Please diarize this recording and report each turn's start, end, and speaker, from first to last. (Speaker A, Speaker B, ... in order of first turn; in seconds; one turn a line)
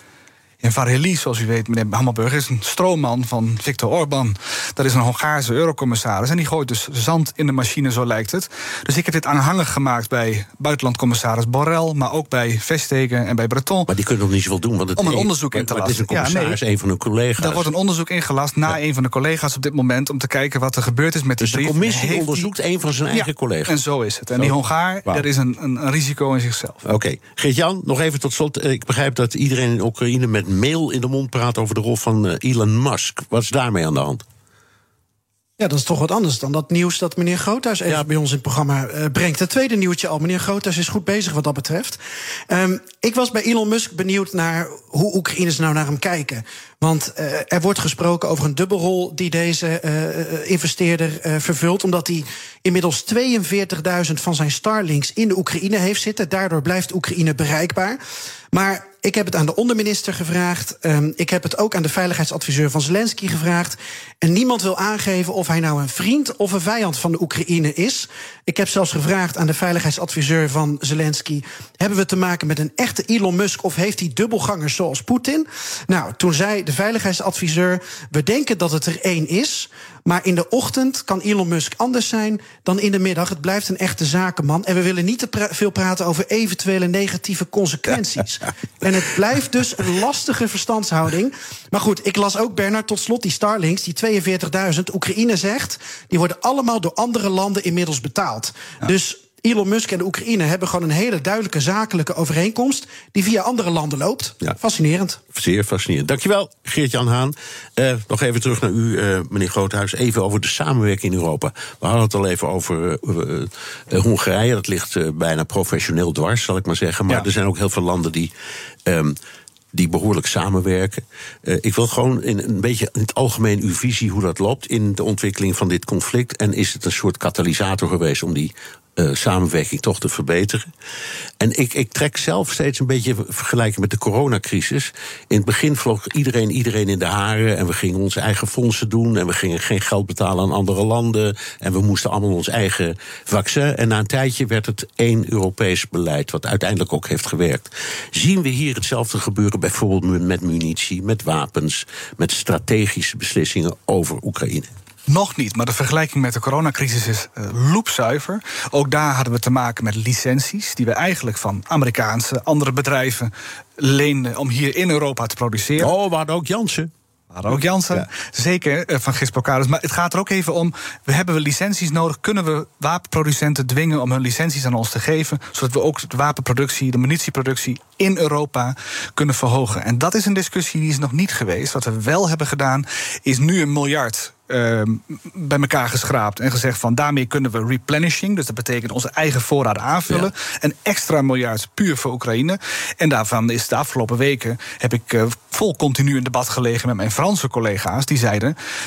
Speaker A: 0.6-13.9
Speaker B: 13.9-17.7
Speaker A: 15.0-16.6
Speaker A: 17.4-22.5
Speaker B: 21.4-23.8
Speaker A: 23.1-26.9
Speaker B: 26.9-34.2
Speaker C: 35.6-58.0
Speaker C: 58.5-105.2
Speaker B: 105.3-118.3
Speaker B: 118.8-119.2
Speaker B: 119.7-130.7
Speaker B: 131.4-154.7
Speaker A: 155.1-165.9
Speaker B: 165.8-166.9
Speaker A: 167.3-198.6
Speaker B: 167.5-168.1